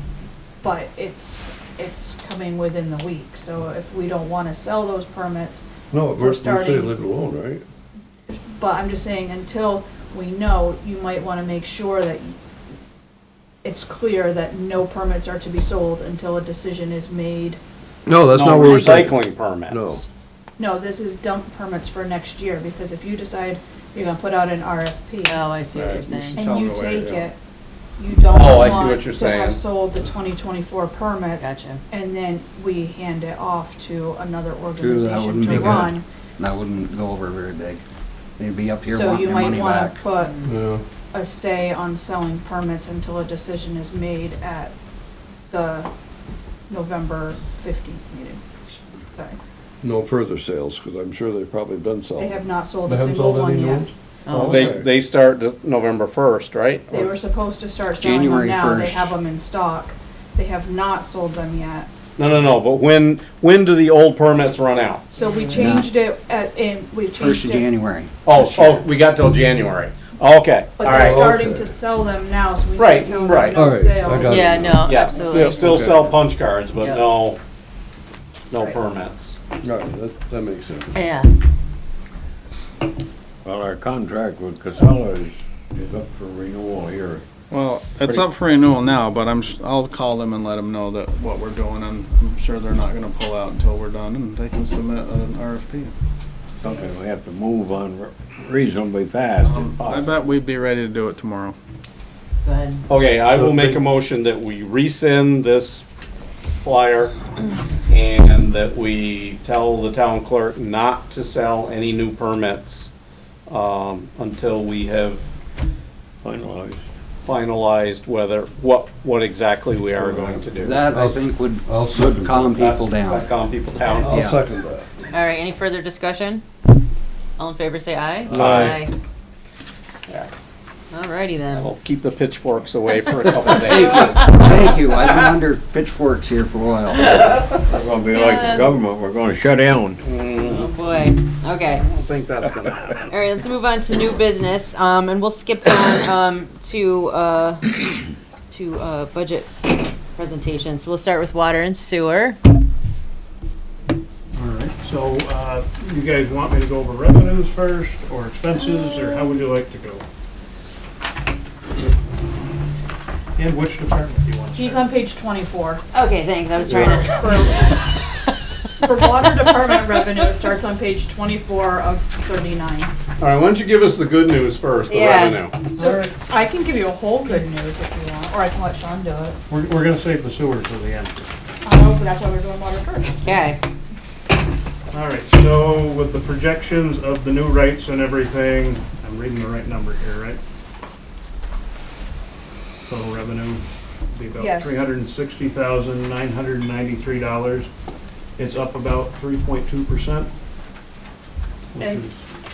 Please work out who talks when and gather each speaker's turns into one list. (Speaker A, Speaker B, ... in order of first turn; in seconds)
Speaker A: 0.6-5.7, 6.2-7.0, 8.3-12.4, 13.6-17.6, 20.6-25.5, 26.4-27.4, 28.0-36.0, 38.9-40.4, 41.1-44.8, 45.5-45.9, 46.7-48.4, 49.1-49.4, 52.2-53.9, 56.9-61.9, 65.1-67.7, 70.8-74.8, 164.6-165.8, 166.7-167.9, 168.8-172.9, 175.7-179.4, 181.6-183.4, 194.4-194.8, 201.8-202.1
Speaker B: 5.9-7.6, 18.1-20.0, 40.5-40.8, 49.8-54.9, 70.8-71.8, 73.5-76.2, 79.6-80.9, 103.3-103.8, 120.2-122.5, 124.0-124.9, 128.3-128.8
Speaker C: 18.3-20.0, 25.7-26.1, 28.2-29.6, 54.4-57.0, 62.2-65.1, 68.2-71.3, 72.8-73.6, 74.8-77.4, 78.5-79.4, 102.9-105.8, 106.5-107.2, 107.9-112.9, 113.5-115.3, 117.2-120.8, 122.5-124.1, 131.5-134.4, 140.0-140.7, 141.7-143.1, 173.2-175.6
Speaker D: 25.2-26.4, 31.4-31.8, 40.2-40.5, 54.2-54.7, 65.2-65.7, 74.3-75.7, 76.8-77.0, 81.0-81.4, 102.4-102.8, 125.1-126.5, 127.4-128.9, 130.9-131.7, 138.1-138.7, 140.5-141.8, 143.1-148.0, 148.5-152.4, 165.9-168.1, 174.9-175.4, 183.2-183.6
Speaker E: 26.1-27.3, 87.5-95.9, 99.4-101.6
Speaker F: 34.8-37.8, 38.4-40.0, 58.0-59.1, 65.5-65.9, 67.2-68.8, 120.6-123.3, 124.1-124.4, 133.7-137.1
Speaker G: 83.4-87.2, 96.6-100.1, 116.2-116.8, 137.7-140.0
Speaker H: 154.3-160.1, 163.4-164.9, 175.8-176.1, 179.5-181.3, 184.9-190.4, 192.9-197.7, 198.4-200.3, 201.7-202.2